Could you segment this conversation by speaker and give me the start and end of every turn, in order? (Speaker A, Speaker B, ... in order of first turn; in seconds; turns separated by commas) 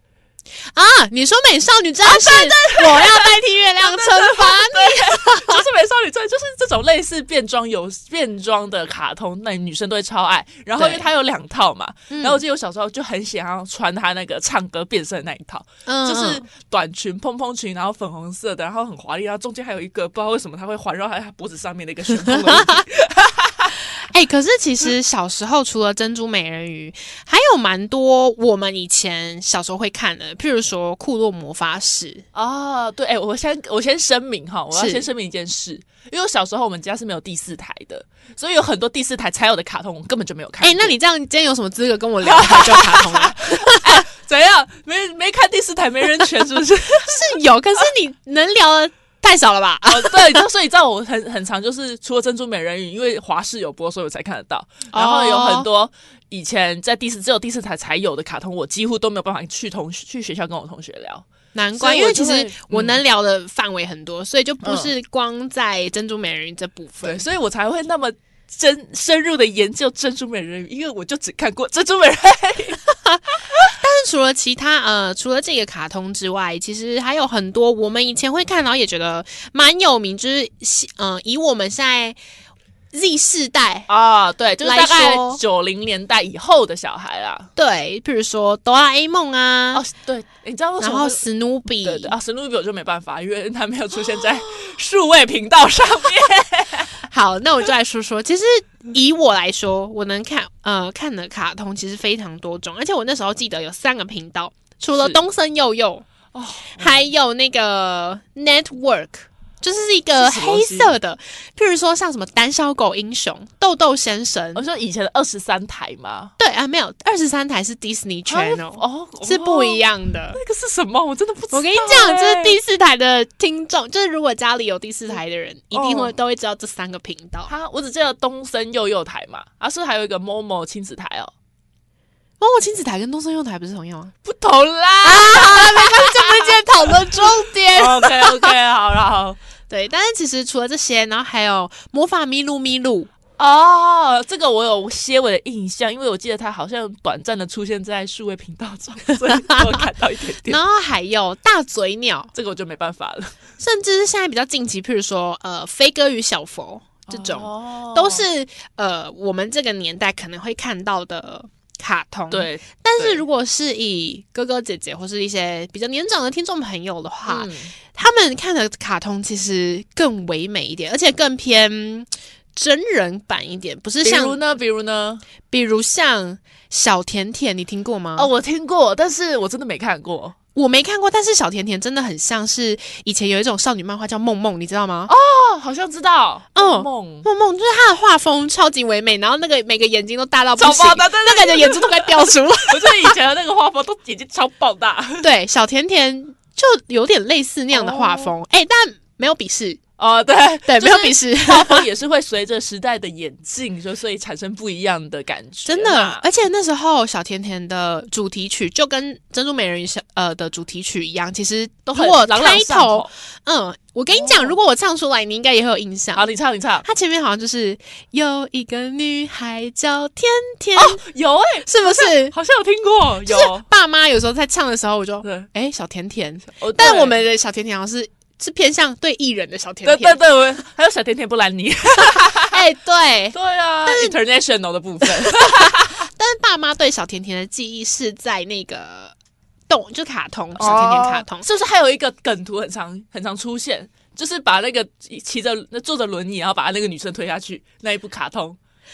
Speaker A: 0.7-5.6, Speaker B: 2.0-23.7, Speaker A: 10.8-11.0, Speaker A: 12.1-12.4, Speaker A: 15.8-16.4, Speaker A: 22.1-22.9, Speaker A: 23.9-32.2, Speaker B: 32.3-41.0, Speaker A: 34.7-35.1, Speaker A: 40.6-44.0, Speaker B: 42.2-47.9, Speaker A: 47.0-50.4, Speaker B: 49.8-63.0, Speaker A: 54.9-55.7, Speaker A: 61.5-67.2, Speaker B: 64.6-64.9, Speaker B: 67.0-73.7, Speaker A: 73.1-82.2, Speaker A: 82.9-83.9, Speaker B: 83.9-87.5, Speaker A: 84.6-85.4, Speaker A: 87.5-89.8, Speaker B: 89.7-91.2, Speaker A: 90.8-92.1, Speaker B: 91.7-97.1, Speaker A: 97.1-106.0, Speaker B: 104.9-105.2, Speaker B: 106.3-107.1, Speaker A: 106.7-114.6, Speaker B: 110.1-110.9, Speaker B: 114.5-116.3, Speaker A: 116.4-120.4, Speaker B: 118.3-122.6, Speaker A: 121.5-127.5, Speaker B: 125.7-126.2, Speaker B: 127.5-131.3, Speaker A: 132.4-134.1, Speaker B: 134.2-139.4, Speaker A: 135.0-138.6, Speaker A: 139.7-143.1, Speaker B: 143.4-150.6, Speaker A: 149.5-149.7, Speaker A: 150.4-152.3, Speaker B: 152.3-153.3, Speaker A: 153.6-174.4, Speaker B: 157.1-158.3, Speaker B: 162.3-163.2, Speaker B: 167.3-167.8, Speaker B: 174.0-175.2, Speaker A: 175.5-178.3, Speaker B: 178.1-180.4, Speaker A: 180.5-185.1, Speaker B: 185.1-187.3, Speaker A: 186.5-193.1, Speaker B: 190.6-195.3, Speaker A: 195.2-199.8, Speaker B: 197.7-198.3, Speaker B: 200.0-206.2, Speaker A: 200.6-201.9, Speaker A: 205.6-216.3, Speaker B: 211.8-213.1, Speaker B: 214.1-214.6, Speaker B: 216.1-216.9, Speaker A: 216.8-221.0, Speaker B: 220.7-223.7, Speaker A: 221.7-222.3, Speaker A: 223.2-230.2, Speaker B: 225.2-225.5, Speaker B: 226.4-227.2, Speaker B: 229.8-232.6, Speaker A: 232.5-234.2, Speaker B: 233.3-236.1, Speaker A: 235.2-239.1, Speaker A: 239.7-241.4, Speaker B: 240.5-248.6